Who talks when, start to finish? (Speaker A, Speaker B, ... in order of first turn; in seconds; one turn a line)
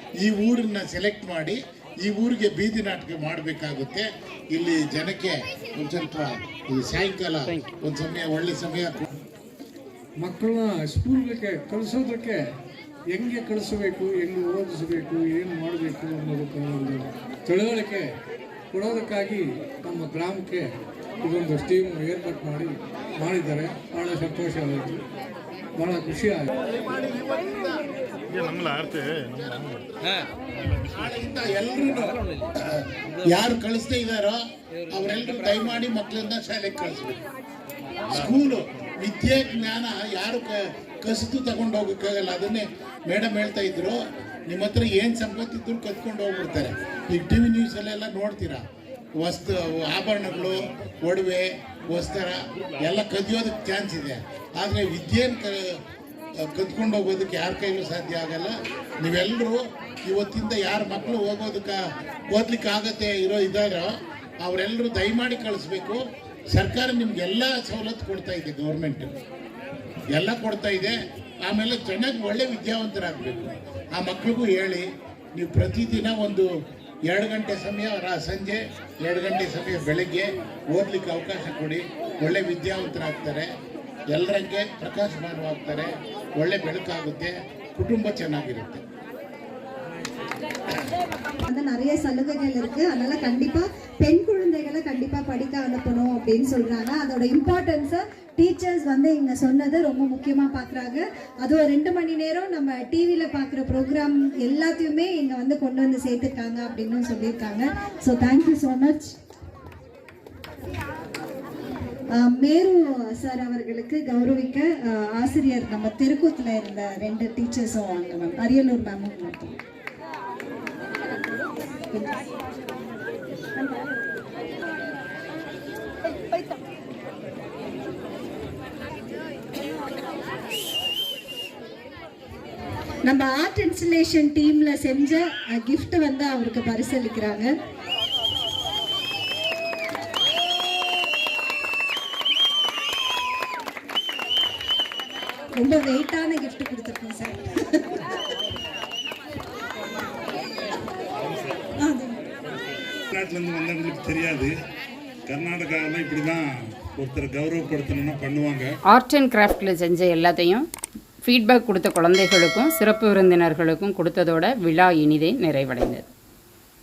Speaker A: 0.2-9.1
Speaker B: 10.2-12.4
Speaker B: 13.1-18.1
Speaker B: 18.7-20.7
Speaker B: 21.2-25.0
Speaker B: 25.8-26.5
Speaker C: 28.3-29.7
Speaker A: 30.9-37.2
Speaker A: 38.1-48.6
Speaker A: 49.2-55.5
Speaker A: 56.4-61.8
Speaker A: 62.3-63.9
Speaker A: 64.4-66.0
Speaker A: 66.5-69.1
Speaker A: 70.1-76.5
Speaker A: 77.1-83.5
Speaker A: 84.1-88.8
Speaker D: 91.5-109.1
Speaker D: 112.2-119.6
Speaker D: 133.1-137.5
Speaker D: 145.6-147.8
Speaker C: 151.2-151.6
Speaker D: 151.8-152.2
Speaker C: 153.1-154.5
Speaker C: 155.3-158.7
Speaker E: 158.9-160.7
Speaker E: 161.2-166.0